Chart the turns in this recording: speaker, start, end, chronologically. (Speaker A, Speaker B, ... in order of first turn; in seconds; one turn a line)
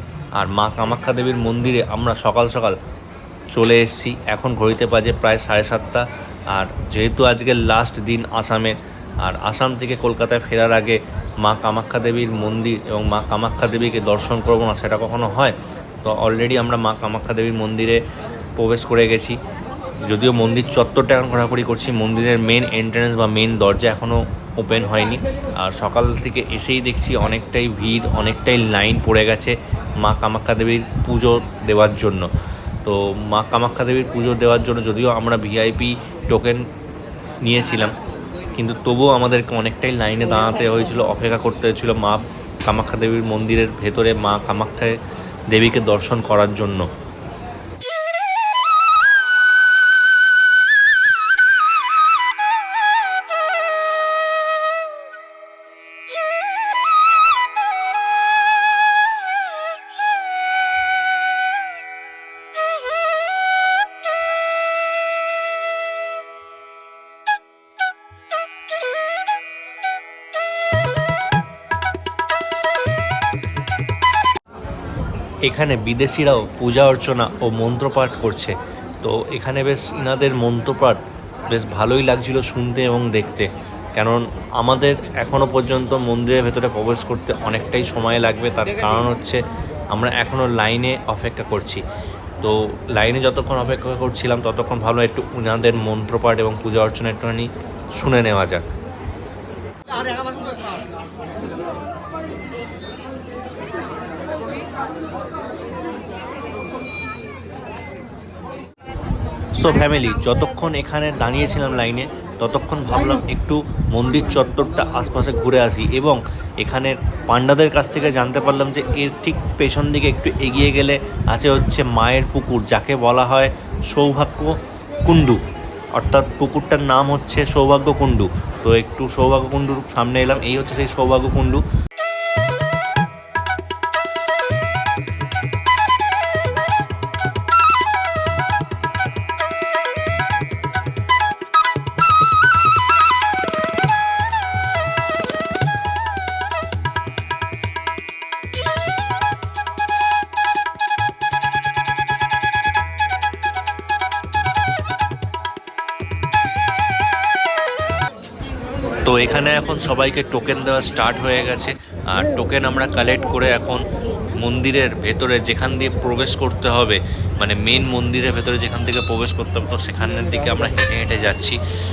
Speaker A: 0.3-2.8
Speaker A: 3.5-18.0
Speaker A: 18.6-19.4
Speaker A: 20.0-32.3
Speaker A: 32.8-36.6
Speaker A: 37.4-38.0
Speaker A: 38.6-45.0
Speaker A: 45.5-46.9
Speaker A: 75.5-89.4
Speaker A: 89.9-91.8
Speaker A: 92.4-98.7
Speaker A: 109.6-125.4
Speaker A: 125.9-131.6
Speaker A: 159.1-163.8
Speaker A: 164.4-171.6